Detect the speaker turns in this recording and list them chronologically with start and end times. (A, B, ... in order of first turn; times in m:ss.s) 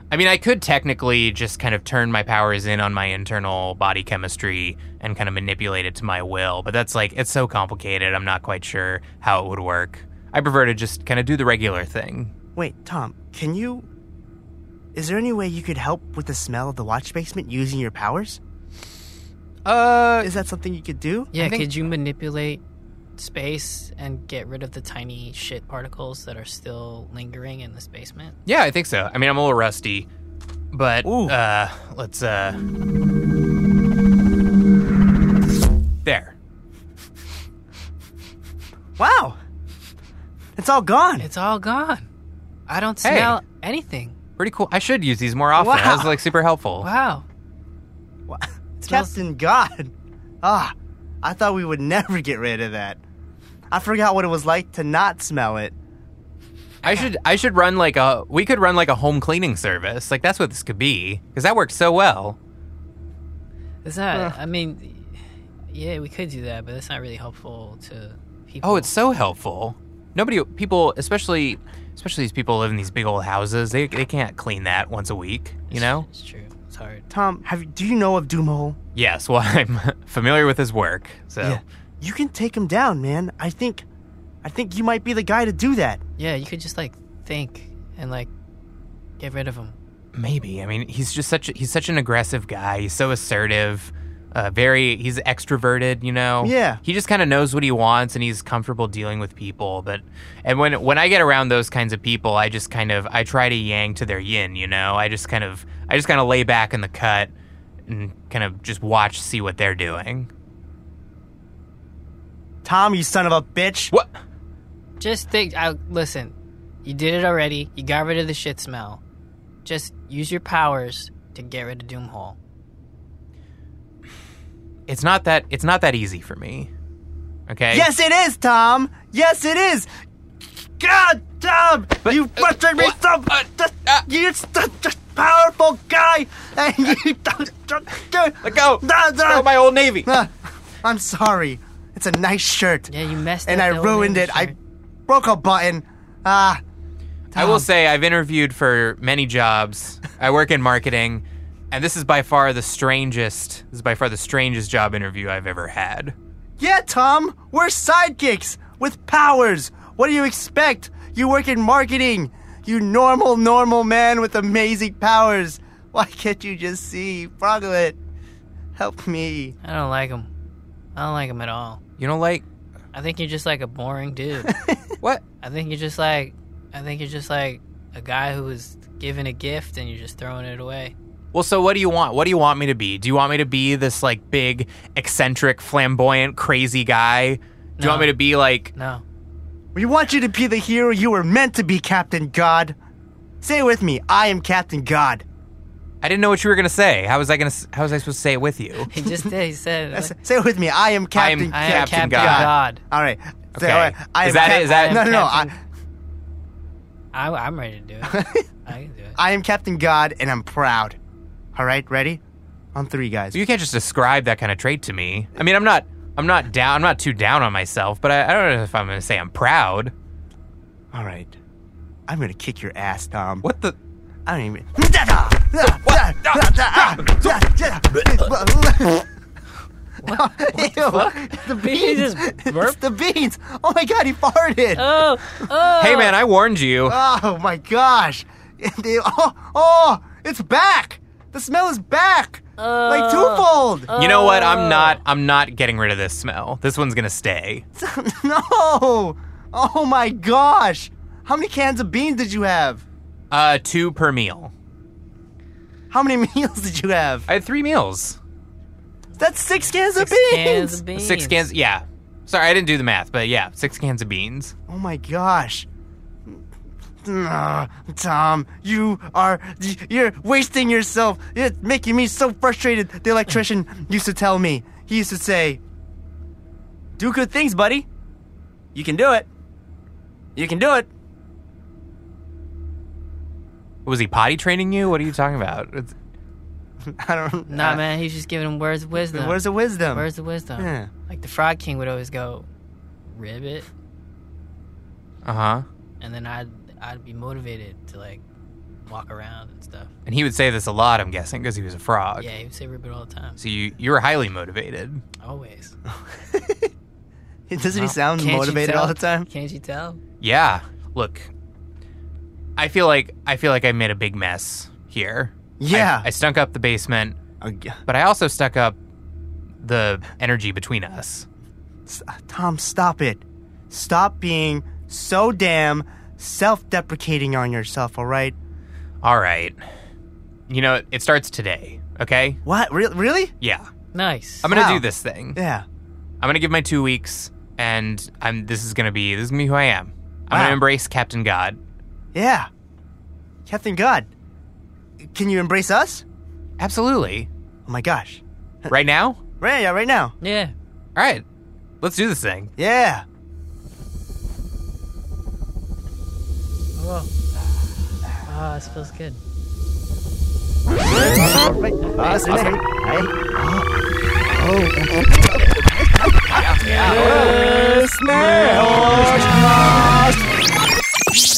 0:00.1-0:12.3 A
0:12.6-0:13.9 B
0:14.9-0:18.4 B
0:19.6-0:20.3 A
0:20.2-0:21.3 B
0:21.3-0:22.6 C
0:21.3-0:21.7 A
0:23.2-0:28.4 C
0:28.4-0:30.1 A
0:30.7-0:32.6 A
0:31.0-0:31.4 B
0:36.0-0:36.3 A
0:39.0-0:39.4 B
0:40.6-0:41.3 B
0:41.2-0:42.1 C
0:42.7-0:44.1 C
0:43.0-0:43.4 A
0:44.4-0:46.9 A
0:45.6-0:46.1 B
0:46.8-0:47.2 C
0:48.3-0:53.0 B
0:48.8-0:49.2 C
0:53.7-0:55.7 B
0:56.8-0:57.1 C
0:56.8-1:02.4 A
1:03.8-1:08.9 C
1:08.6-1:16.1 A
1:15.7-1:17.0 C
1:17.1-1:18.8 B
1:18.9-1:21.6 A
1:21.4-1:23.8 B
1:24.4-1:26.0 B
1:26.2-1:28.3 C
1:29.2-1:29.8 C
1:30.1-1:47.3 A
1:36.4-1:36.8 B
1:47.9-1:50.3 A
1:52.6-1:53.9 B
1:55.0-1:59.0 C
1:59.6-2:02.4 C
2:04.9-2:06.7 A
2:07.5-2:07.9 A
2:07.7-2:09.9 B
2:10.8-2:19.5 B
2:12.0-2:14.0 A
2:18.4-2:20.1 A
2:20.0-2:22.9 B
2:22.9-2:24.6 C
2:23.4-2:24.5 B
2:25.1-2:26.6 B
2:27.3-2:27.7 B
2:27.3-2:36.1 A
2:36.6-2:48.0 B
2:48.8-2:49.5 B
2:49.6-2:50.3 C
2:51.0-2:51.8 C
2:52.0-2:52.4 A
2:52.9-2:54.5 C
2:54.5-2:54.9 B
2:55.4-3:00.9 C
3:01.3-3:08.7 A
3:07.8-3:08.2 C
3:08.7-3:09.0 C
3:09.7-3:12.8 B
3:13.4-3:15.2 B
3:16.0-3:18.9 A
3:18.9-3:20.1 C
3:19.0-3:19.3 B
3:19.9-3:25.5 B
3:21.1-3:22.5 A
3:21.5-3:22.8 C
3:23.6-3:25.0 A
3:24.3-3:25.5 C
3:27.1-3:29.2 C
3:28.0-3:28.4 B
3:29.2-3:31.0 B
3:31.5-3:32.2 B
3:32.7-3:33.4 B
3:33.3-3:39.9 A
3:40.9-3:41.4 B
3:42.1-3:43.4 B
3:43.4-3:43.7 A
3:44.2-3:49.1 B
3:45.6-3:47.4 A
3:50.0-3:52.8 C
3:50.0-3:54.8 B
3:54.7-3:56.1 C
3:55.8-3:57.0 A
3:56.8-4:03.9 B
4:02.6-4:05.0 C
4:04.0-4:07.6 A
4:07.7-4:12.8 B
4:13.3-4:14.5 A
4:15.9-4:17.3 B
4:17.3-4:18.2 A
4:19.2-4:20.8 B
4:20.0-4:21.4 C
4:20.9-4:24.5 A
4:24.7-4:25.7 B
4:27.0-4:35.6 B
4:37.0-4:37.9 B
4:38.7-4:39.3 B
4:40.4-4:40.9 B
4:43.8-4:45.9 A
4:46.8-4:47.8 B
4:47.5-4:52.5 C
4:49.1-4:50.0 B
4:50.6-4:50.9 B
4:53.1-4:53.7 C
4:55.2-4:55.6 A
4:56.0-4:58.2 C
4:58.9-4:59.9 C
5:00.0-5:02.3 A
5:02.2-5:03.4 C
5:03.4-5:05.0 A
5:05.2-5:05.8 C
5:05.9-5:06.7 B
5:07.5-5:09.3 B
5:07.8-5:10.0 C
5:10.2-5:11.3 A
5:12.6-5:17.2 A
5:15.6-5:16.1 B
5:17.4-5:17.8 B
5:17.9-5:18.8 A
5:19.6-5:21.2 A
5:21.8-5:28.4 B
5:29.0-5:29.6 A
5:30.5-5:32.4 A
5:32.4-5:33.3 B
5:33.4-5:33.7 A
5:33.9-5:34.5 C
5:34.4-5:35.4 A
5:34.5-5:34.8 B
5:35.3-5:35.6 B
5:36.2-5:41.6 A
5:40.3-5:40.6 B
5:42.1-5:42.5 B
5:43.4-5:44.1 B
5:45.0-5:46.0 B
5:46.6-5:47.3 A
5:47.6-5:48.7 B
5:48.7-5:49.2 A
5:49.4-5:50.1 B
5:50.2-5:50.5 C
5:51.0-5:51.2 A
5:51.8-5:52.5 A
5:52.6-5:53.0 B
5:56.8-5:57.1 C
5:58.2-5:59.2 C
6:00.8-6:03.7 B
6:02.1-6:02.5 A
6:04.2-6:10.3 B
6:06.3-6:07.2 A
6:06.6-6:10.0 C